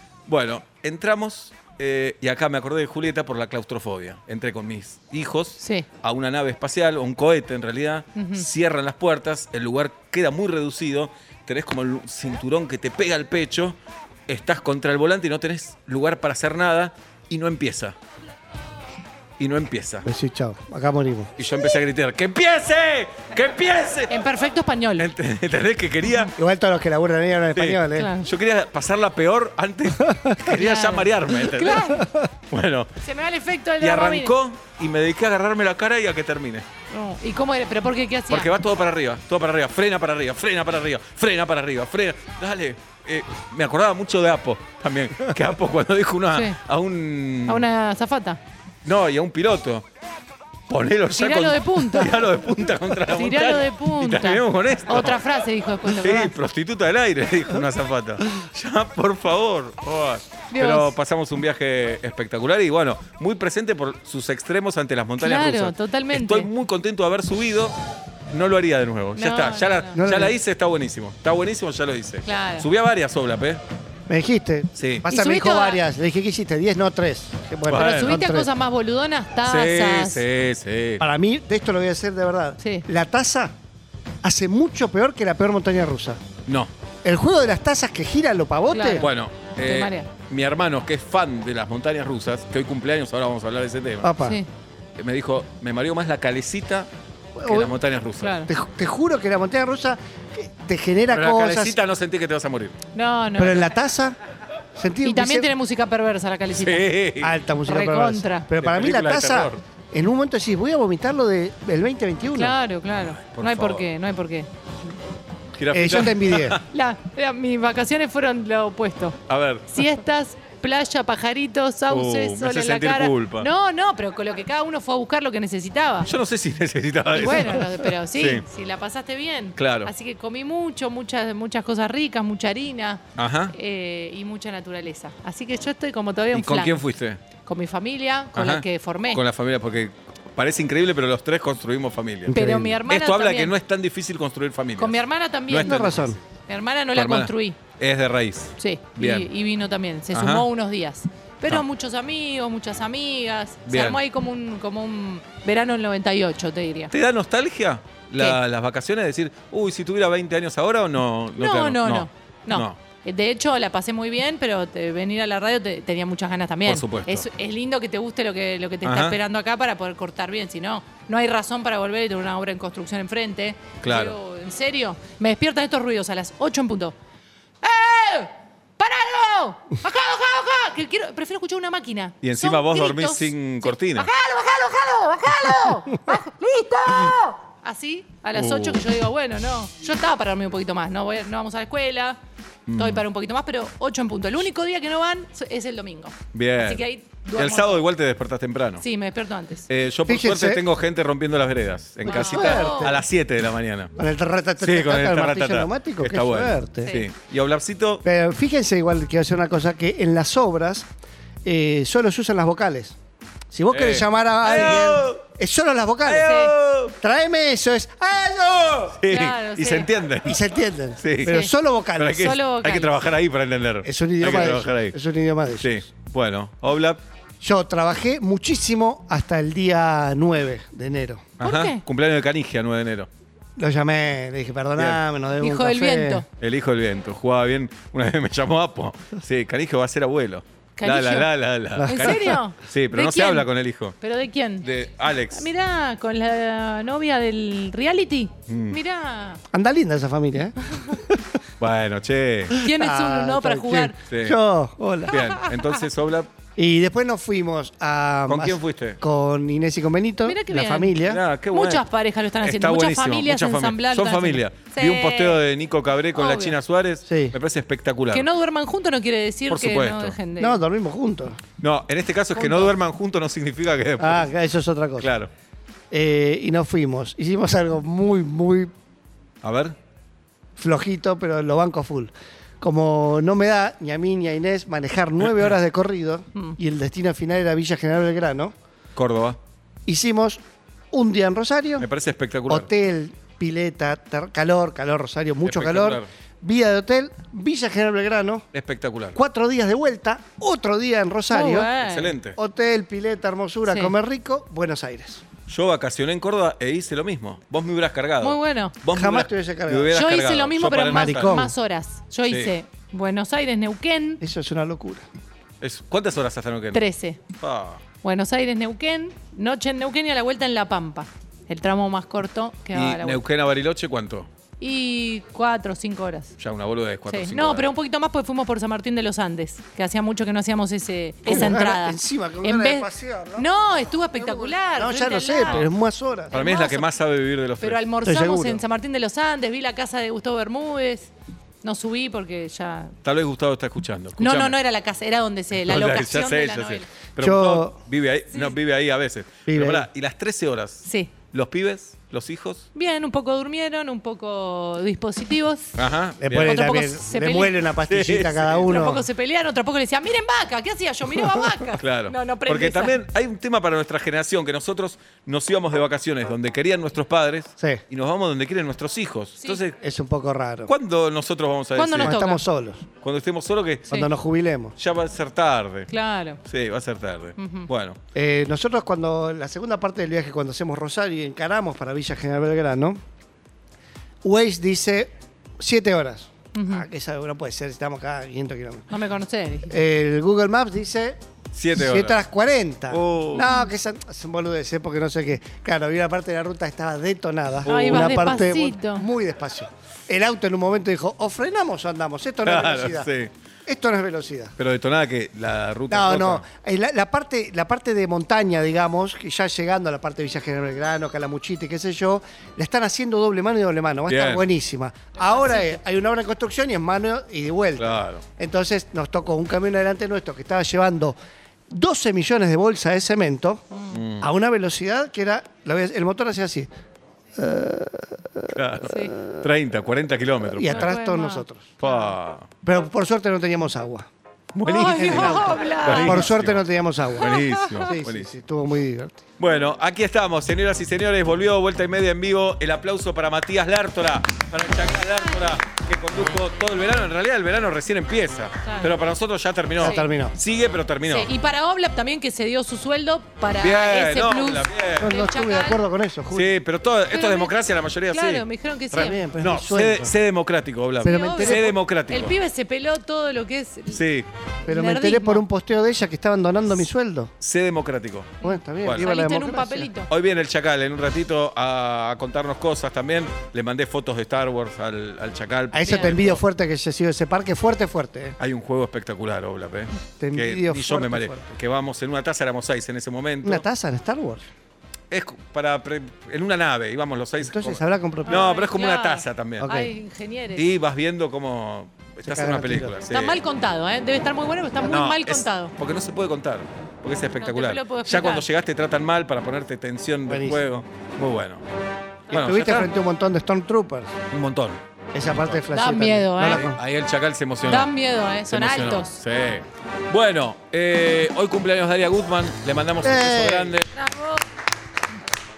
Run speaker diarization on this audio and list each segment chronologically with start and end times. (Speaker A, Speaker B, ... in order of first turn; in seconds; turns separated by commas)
Speaker A: 0.3-13.8, Speaker B: 5.6-5.8, Speaker B: 8.2-8.5, Speaker A: 14.3-17.9, Speaker A: 19.4-20.1, Speaker C: 20.0-21.3, Speaker A: 21.4-24.1, Speaker B: 24.1-25.1, Speaker A: 25.0-26.3, Speaker C: 26.4-28.1, Speaker A: 27.5-32.0, Speaker B: 27.9-28.3, Speaker B: 30.5-32.1, Speaker C: 32.0-32.3, Speaker A: 32.5-32.9, Speaker B: 33.0-34.3, Speaker A: 33.8-36.6, Speaker B: 36.9-38.5, Speaker A: 38.3-47.6, Speaker B: 47.5-48.4, Speaker A: 48.8-49.9, Speaker A: 50.7-55.2, Speaker B: 51.1-52.1, Speaker B: 53.1-56.3, Speaker A: 55.9-67.7, Speaker B: 60.5-60.9, Speaker B: 65.2-66.5, Speaker A: 68.3-73.6, Speaker B: 69.2-70.0, Speaker C: 70.0-70.3, Speaker B: 72.2-72.7, Speaker C: 74.1-78.5, Speaker A: 74.8-75.0, Speaker B: 75.1-75.8, Speaker A: 77.7-78.2, Speaker B: 77.7-80.2, Speaker A: 79.4-81.0, Speaker C: 81.0-83.5, Speaker B: 82.6-82.8, Speaker C: 84.2-86.2, Speaker C: 87.0-89.0, Speaker B: 88.7-89.1, Speaker A: 89.0-94.1, Speaker B: 89.6-90.1, Speaker C: 94.0-94.4, Speaker B: 94.2-94.5, Speaker A: 95.0-96.9, Speaker C: 97.3-97.7, Speaker A: 97.4-98.4, Speaker B: 98.2-98.5, Speaker C: 98.5-101.8, Speaker A: 101.1-102.8, Speaker B: 102.9-103.7, Speaker C: 103.4-104.2, Speaker C: 104.7-105.5, Speaker B: 105.0-106.9, Speaker A: 106.5-107.4, Speaker C: 107.2-112.5, Speaker B: 107.7-108.5, Speaker A: 108.6-109.6, Speaker B: 112.3-114.5, Speaker A: 113.0-113.9, Speaker A: 115.5-116.6, Speaker C: 115.7-116.6, Speaker B: 116.7-119.2, Speaker A: 119.3-119.7, Speaker B: 119.7-126.1, Speaker A: 121.9-123.5, Speaker A: 126.0-128.4, Speaker B: 127.1-136.8, Speaker A: 129.6-129.9, Speaker A: 133.2-133.5, Speaker A: 136.3-137.2, Speaker B: 137.4-139.2, Speaker A: 138.3-146.2, Speaker C: 142.3-142.8, Speaker B: 142.3-143.5, Speaker B: 144.8-145.9, Speaker C: 145.6-146.2, Speaker B: 146.5-147.6, Speaker A: 146.9-149.3, Speaker B: 148.6-156.9, Speaker A: 150.1-150.4, Speaker A: 153.7-154.0, Speaker A: 156.9-162.8, Speaker B: 161.3-176.9, Speaker A: 166.7-167.2, Speaker A: 168.8-169.2, Speaker A: 173.8-174.2, Speaker B: 177.6-192.2, Speaker A: 182.2-184.1, Speaker A: 188.3-188.8, Speaker A: 192.7-193.0, Speaker B: 192.8-197.8, Speaker A: 196.3-196.8, Speaker A: 197.3-198.8, Speaker B: 198.8-199.7, Speaker A: 199.7-203.9, Speaker C: 200.1-200.6, Speaker B: 202.0-202.9, Speaker C: 202.1-203.0, Speaker C: 203.9-206.9, Speaker A: 204.6-208.0, Speaker B: 206.8-207.1, Speaker C: 208.0-210.9, Speaker C: 211.4-212.9, Speaker C: 213.5-216.3, Speaker A: 213.7-215.2, Speaker A: 216.0-216.9, Speaker B: 216.2-216.5, Speaker C: 217.0-219.0, Speaker A: 219.0-220.4, Speaker B: 219.1-219.9, Speaker C: 220.2-222.3, Speaker A: 221.0-221.4, Speaker B: 221.2-221.5, Speaker A: 221.9-225.0, Speaker B: 222.1-222.9, Speaker C: 223.8-225.8, Speaker A: 225.6-227.0, Speaker C: 227.4-231.3, Speaker A: 231.4-233.1, Speaker B: 231.4-231.8, Speaker C: 233.6-236.2, Speaker B: 235.4-236.2, Speaker A: 236.4-243.9, Speaker B: 240.8-241.3, Speaker C: 241.8-242.3, Speaker B: 241.8-243.5, Speaker B: 244.0-244.7, Speaker A: 244.6-245.5, Speaker B: 245.3-249.4, Speaker A: 248.5-248.8, Speaker C: 249.5-251.2, Speaker A: 251.6-252.6, Speaker B: 252.6-253.9, Speaker C: 252.6-255.2, Speaker A: 254.1-254.4, Speaker A: 255.1-256.3, Speaker B: 255.1-255.8, Speaker C: 256.6-261.2, Speaker A: 258.3-259.0, Speaker B: 260.2-265.4, Speaker A: 261.0-261.8, Speaker A: 262.4-268.3, Speaker B: 266.1-266.6, Speaker C: 267.1-267.3, Speaker B: 268.1-270.6, Speaker A: 269.5-270.2, Speaker C: 270.4-271.4, Speaker A: 271.6-274.3, Speaker B: 272.3-272.7, Speaker C: 274.0-275.1, Speaker A: 275.0-275.3, Speaker C: 275.9-278.7, Speaker A: 279.4-279.8, Speaker C: 280.6-288.5, Speaker A: 288.9-289.4, Speaker C: 289.9-291.9, Speaker A: 291.8-292.7, Speaker C: 292.5-298.4, Speaker A: 295.4-296.1, Speaker A: 298.5-299.1, Speaker C: 299.1-301.7, Speaker B: 301.3-302.1, Speaker A: 301.8-302.4, Speaker C: 302.3-305.2, Speaker B: 303.6-303.9, Speaker A: 305.5-311.4, Speaker B: 308.2-308.7, Speaker C: 308.9-309.9, Speaker B: 309.9-314.2, Speaker C: 310.9-311.5, Speaker C: 314.2-315.1, Speaker A: 315.6-317.8, Speaker B: 316.7-317.2, Speaker B: 318.0-323.2, Speaker A: 322.7-324.3, Speaker B: 324.6-326.3, Speaker A: 326.4-327.7, Speaker B: 327.1-335.6, Speaker C: 331.2-333.5, Speaker C: 334.1-336.3, Speaker B: 336.3-336.9, Speaker A: 336.3-337.8, Speaker B: 337.6-341.1, Speaker C: 338.0-338.6, Speaker B: 341.6-342.9, Speaker A: 343.0-344.6, Speaker B: 344.2-346.9, Speaker A: 345.6-352.7, Speaker C: 347.2-347.8, Speaker C: 349.5-349.9, Speaker B: 350.8-351.1, Speaker B: 352.7-355.7, Speaker A: 355.8-356.6, Speaker C: 356.2-359.1, Speaker B: 356.3-357.5, Speaker A: 357.9-358.7, Speaker B: 358.7-363.0, Speaker A: 361.8-369.8, Speaker C: 369.8-370.7, Speaker A: 370.7-372.2, Speaker B: 371.8-372.4, Speaker C: 372.0-372.9, Speaker A: 373.0-374.0, Speaker C: 373.9-374.7, Speaker A: 374.8-375.9, Speaker B: 375.9-376.4, Speaker A: 376.4-378.0, Speaker B: 377.4-377.7, Speaker C: 378.1-383.0, Speaker C: 384.2-388.9, Speaker B: 386.5-386.9, Speaker B: 388.9-389.8, Speaker C: 389.7-391.2, Speaker A: 391.5-392.2, Speaker C: 391.7-403.1, Speaker A: 392.9-393.4, Speaker B: 393.4-393.7, Speaker A: 397.6-398.4, Speaker B: 397.6-399.1, Speaker A: 402.4-403.3, Speaker C: 403.6-404.5, Speaker A: 404.6-406.4, Speaker C: 405.9-421.2, Speaker A: 414.1-414.5, Speaker B: 415.2-415.8, Speaker A: 417.8-418.2, Speaker C: 421.7-423.6, Speaker A: 423.9-424.3, Speaker C: 424.2-426.7, Speaker C: 427.4-428.6, Speaker A: 428.5-430.9, Speaker B: 428.8-429.1, Speaker C: 430.4-431.7, Speaker B: 430.7-432.1, Speaker A: 431.8-432.5, Speaker C: 432.6-434.1, Speaker A: 434.5-438.3, Speaker B: 434.6-436.3, Speaker C: 434.8-439.2, Speaker B: 437.2-437.8, Speaker A: 439.4-451.3, Speaker B: 448.6-448.9, Speaker C: 449.8-450.3, Speaker B: 449.8-450.1, Speaker B: 451.1-455.8, Speaker A: 453.6-455.1, Speaker C: 455.0-456.6, Speaker A: 456.3-462.3, Speaker B: 457.1-457.5, Speaker B: 458.1-459.2, Speaker C: 458.9-460.1, Speaker C: 461.0-461.7, Speaker B: 461.0-464.0, Speaker A: 463.9-464.3, Speaker B: 464.7-465.4, Speaker C: 464.7-467.3, Speaker A: 467.4-469.1, Speaker C: 468.4-469.9, Speaker B: 468.4-470.1, Speaker A: 470.1-476.4, Speaker C: 475.7-478.4, Speaker A: 478.4-483.6, Speaker C: 480.2-481.5, Speaker C: 483.4-484.4, Speaker A: 485.1-489.7, Speaker C: 487.4-488.5, Speaker B: 488.2-490.7, Speaker C: 489.6-489.9, Speaker A: 490.6-493.4, Speaker C: 492.2-492.9, Speaker B: 493.1-495.7, Speaker A: 494.8-501.6, Speaker B: 497.4-498.5, Speaker C: 500.3-500.6, Speaker A: 502.3-502.9, Speaker C: 502.3-504.1, Speaker A: 504.3-504.8, Speaker C: 505.1-506.8, Speaker A: 505.3-505.6, Speaker B: 505.7-506.7, Speaker A: 506.4-507.9, Speaker B: 507.6-509.2, Speaker A: 508.4-513.9, Speaker C: 513.0-513.8, Speaker B: 513.9-514.4